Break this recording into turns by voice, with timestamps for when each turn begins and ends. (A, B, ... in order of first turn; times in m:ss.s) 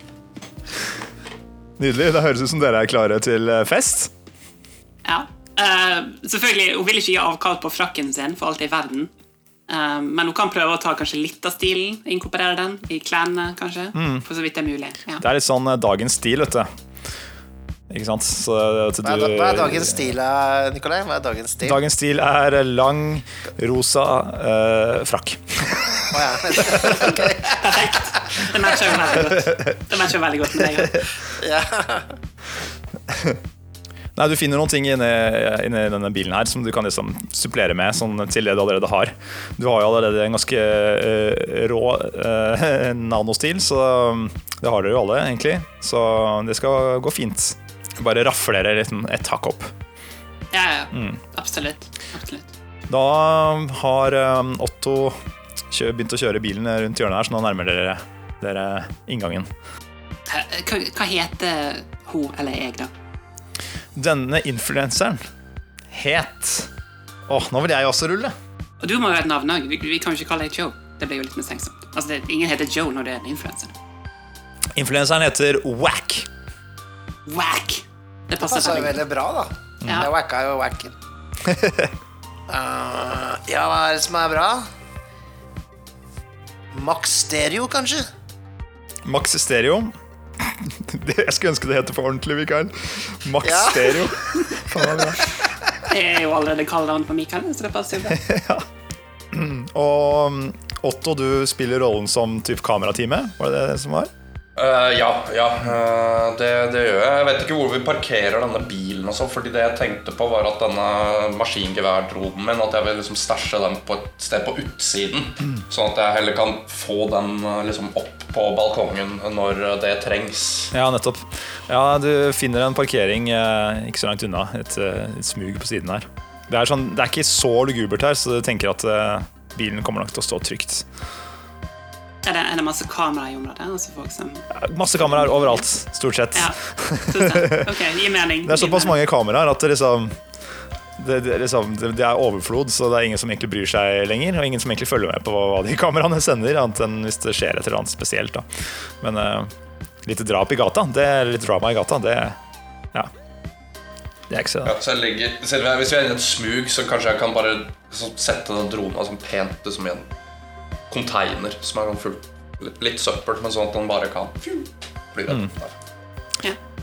0:01.8-0:04.1 A
0:05.0-0:09.1 B
0:09.7-0:15.2 B
0:13.9-0:14.2 A
0:15.2-0:16.7 A
0:17.9-0:20.1 A
0:19.0-0:21.8 C
0:21.6-0:27.2 A
0:26.1-0:27.8 C
0:26.7-0:31.1 B
0:31.3-0:32.1 C
0:33.1-0:33.4 A
0:34.2-0:49.7 A
0:50.5-0:52.5 B
0:50.9-0:51.2 A
0:52.9-0:55.2 A
0:55.7-0:59.5 A
1:00.3-1:02.9 B
1:03.9-1:05.2 A
1:05.9-1:06.7 A
1:07.3-1:08.3 A
1:08.8-1:13.7 B
1:14.7-1:16.3 A
1:17.2-1:19.0 B
1:18.4-1:20.9 C
1:19.8-1:20.1 A
1:21.4-1:21.9 A
1:22.5-1:24.7 C
1:26.7-1:28.1 C
1:29.0-1:35.3 A
1:33.4-1:34.1 C
1:35.9-1:38.2 B
1:38.1-1:38.6 A
1:39.3-1:44.1 A
1:44.6-2:00.7 D
2:00.7-2:10.8 A
2:12.2-2:14.4 B
2:14.5-2:17.8 A
2:15.1-2:15.6 B
2:17.1-2:19.0 B
2:18.4-2:20.2 A
2:21.0-2:28.4 A
2:29.0-2:29.5 A
2:30.0-2:32.4 A
2:34.3-2:34.7 A
2:34.6-2:40.1 D
2:40.9-2:45.7 D